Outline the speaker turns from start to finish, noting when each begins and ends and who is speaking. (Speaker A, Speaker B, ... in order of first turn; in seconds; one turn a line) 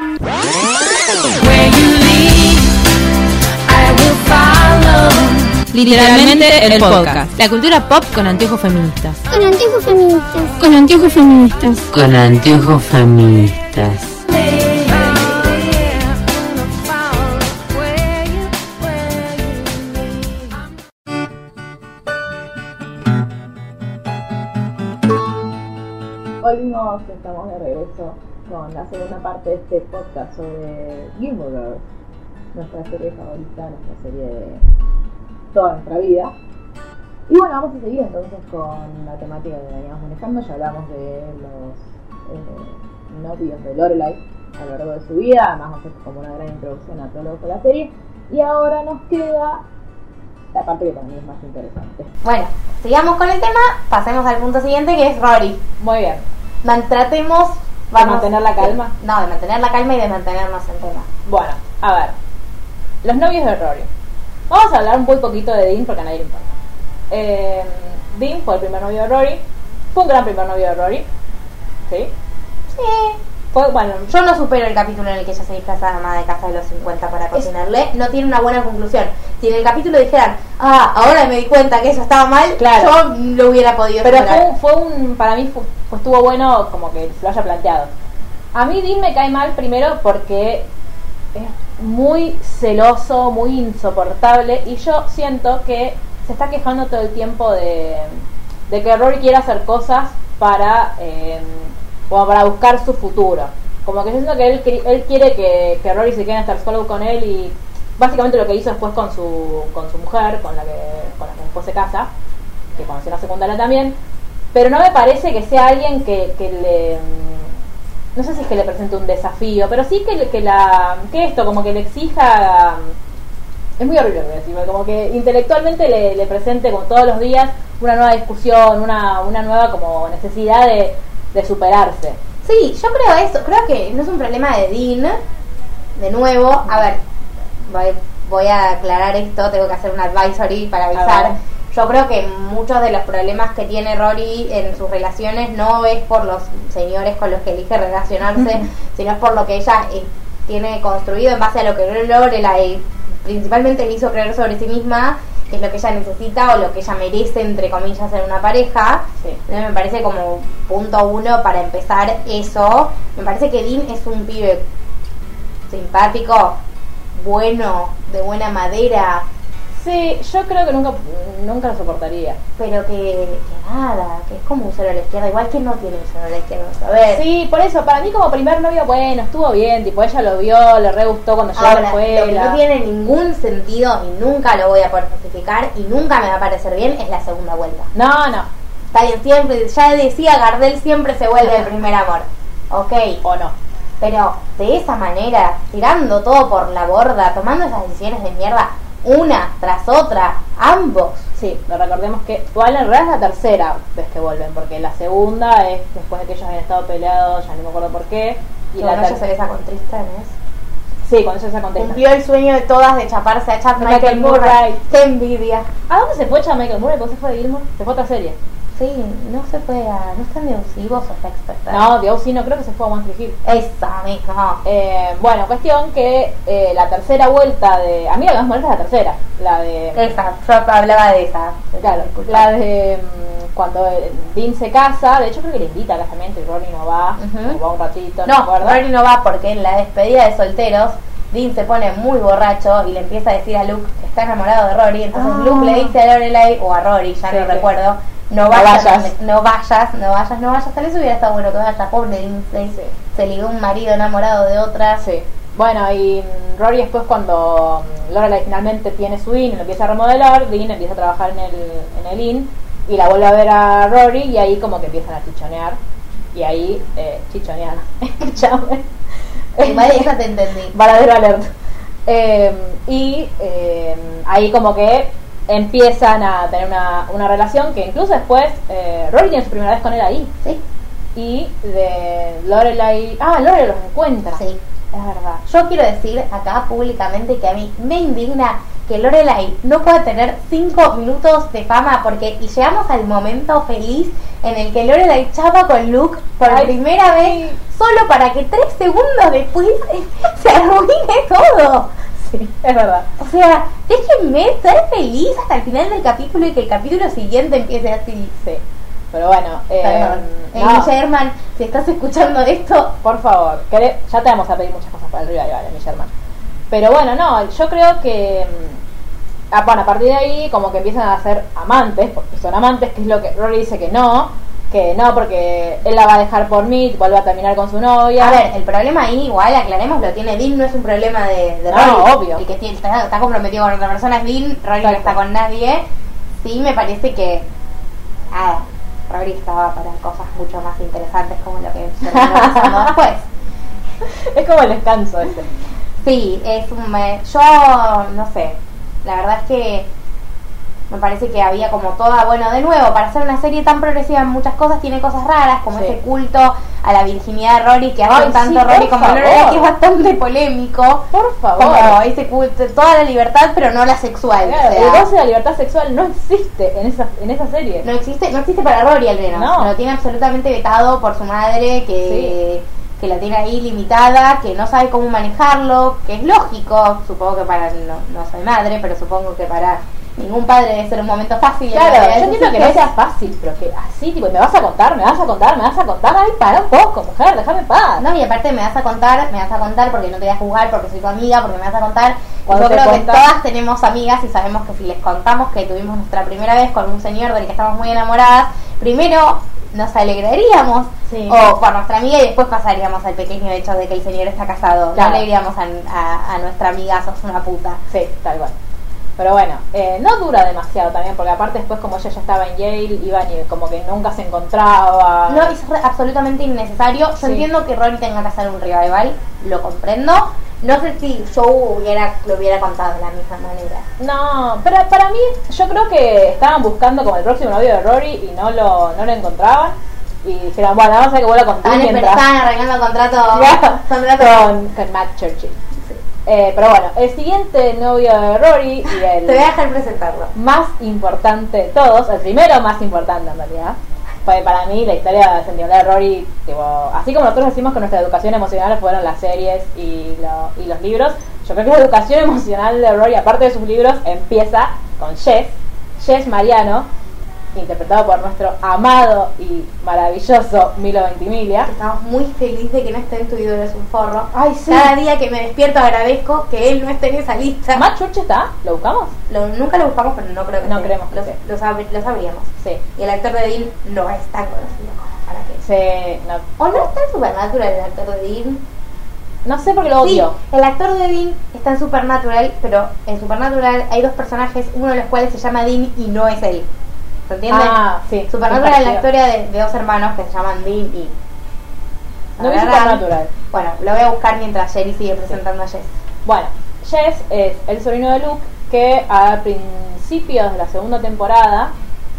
Speaker A: 1.3-2.8
Speaker A: 3.7-9.2
Speaker B: 5.9-7.3
Speaker C: 9.3-11.8
Speaker D: 11.9-14.2
Speaker A: 14.3-16.1
Speaker B: 18.8-20.1
Speaker B: 26.4-31.8
Speaker B: 32.5-34.6
Speaker B: 35.5-36.3
Speaker B: 37.3-49.6
Speaker B: 50.5-52.1
Speaker E: 52.2-55.6
Speaker B: 55.8-56.2
Speaker E: 56.6-61.1
Speaker B: 58.0-58.9
Speaker B: 61.2-62.1
Speaker B: 63.0-63.9
Speaker B: 64.5-66.5
Speaker B: 67.1-69.4
Speaker B: 69.9-71.0
Speaker E: 72.7-73.2
Speaker B: 73.5-74.1
Speaker E: 74.1-84.5
Speaker B: 82.6-83.0
Speaker B: 84.0-87.9
Speaker B: 88.5-90.7
Speaker B: 91.3-112.1
Speaker B: 112.8-114.0
Speaker B: 114.5-117.5
Speaker B: 118.2-122.9
Speaker B: 123.8-132.2
Speaker E: 132.4-135.2
Speaker E: 135.9-137.0
Speaker E: 137.6-164.6
Speaker B: 140.9-141.4
Speaker E: 165.7-166.6
Speaker E: 167.1-169.2
Speaker B: 169.8-172.4
Speaker E: 172.6-177.2
Speaker B: 177.1-182.6
Speaker E: 181.6-187.9
Speaker B: 187.9-188.5
Speaker E: 188.9-193.2
Speaker B: 193.2-193.5
Speaker E: 194.0-201.2
Speaker B: 201.3-209.2
Speaker E: 208.8-210.3
Speaker B: 211.0-212.0
Speaker E: 211.8-215.7
Speaker B: 213.8-214.8
Speaker B: 215.9-218.4
Speaker E: 218.8-221.9
Speaker B: 221.7-223.4
Speaker E: 223.4-224.6
Speaker B: 224.6-230.2
Speaker E: 229.9-232.5
Speaker B: 231.8-238.8
Speaker E: 237.2-237.6
Speaker E: 238.2-255.0
Speaker B: 245.1-245.9
Speaker B: 247.3-247.7
Speaker B: 248.5-249.1
Speaker B: 255.0-265.8
Speaker B: 266.3-268.9
Speaker B: 269.5-270.1
Speaker E: 269.6-270.7
Speaker B: 270.7-271.5
Speaker B: 272.1-280.3
Speaker B: 281.1-285.4
Speaker E: 285.4-301.9
Speaker B: 296.4-297.6
Speaker B: 302.2-303.1
Speaker E: 303.2-308.3
Speaker B: 308.4-310.9
Speaker E: 309.8-312.9
Speaker B: 313.0-316.1
Speaker B: 316.7-318.8
Speaker B: 319.5-328.4
Speaker E: 328.2-335.8
Speaker B: 331.7-332.4
Speaker B: 334.8-335.1
Speaker E: 336.4-337.5
Speaker E: 338.3-343.3
Speaker B: 342.0-342.9
Speaker B: 344.0-345.5
Speaker E: 346.0-349.9
Speaker E: 350.9-361.1
Speaker B: 355.7-356.0
Speaker B: 358.1-359.7
Speaker B: 361.1-362.0
Speaker E: 361.6-365.1
Speaker B: 364.4-367.9
Speaker E: 367.8-382.9
Speaker B: 369.3-369.7
Speaker B: 372.0-372.4
Speaker B: 381.7-388.1
Speaker E: 388.0-407.8
Speaker B: 392.5-393.3
Speaker B: 401.1-401.4
Speaker B: 404.9-405.3
Speaker B: 407.9-408.5
Speaker B: 409.2-415.5
Speaker E: 415.3-423.8
Speaker B: 417.2-417.4
Speaker B: 424.0-432.2
Speaker E: 431.6-434.5
Speaker B: 433.3-435.6
Speaker B: 436.2-439.4
Speaker E: 438.9-440.3
Speaker B: 440.3-456.9
Speaker B: 457.5-461.7
Speaker E: 461.6-467.9
Speaker B: 464.3-464.9
Speaker B: 467.7-469.1
Speaker E: 469.3-475.6
Speaker B: 470.6-471.4
Speaker B: 475.6-476.8
Speaker E: 476.6-478.6
Speaker B: 479.4-480.4
Speaker E: 480.0-486.7
Speaker E: 487.3-487.8
Speaker B: 487.5-489.0
Speaker E: 488.3-491.1
Speaker E: 492.4-495.9
Speaker B: 492.4-493.3
Speaker B: 496.2-501.7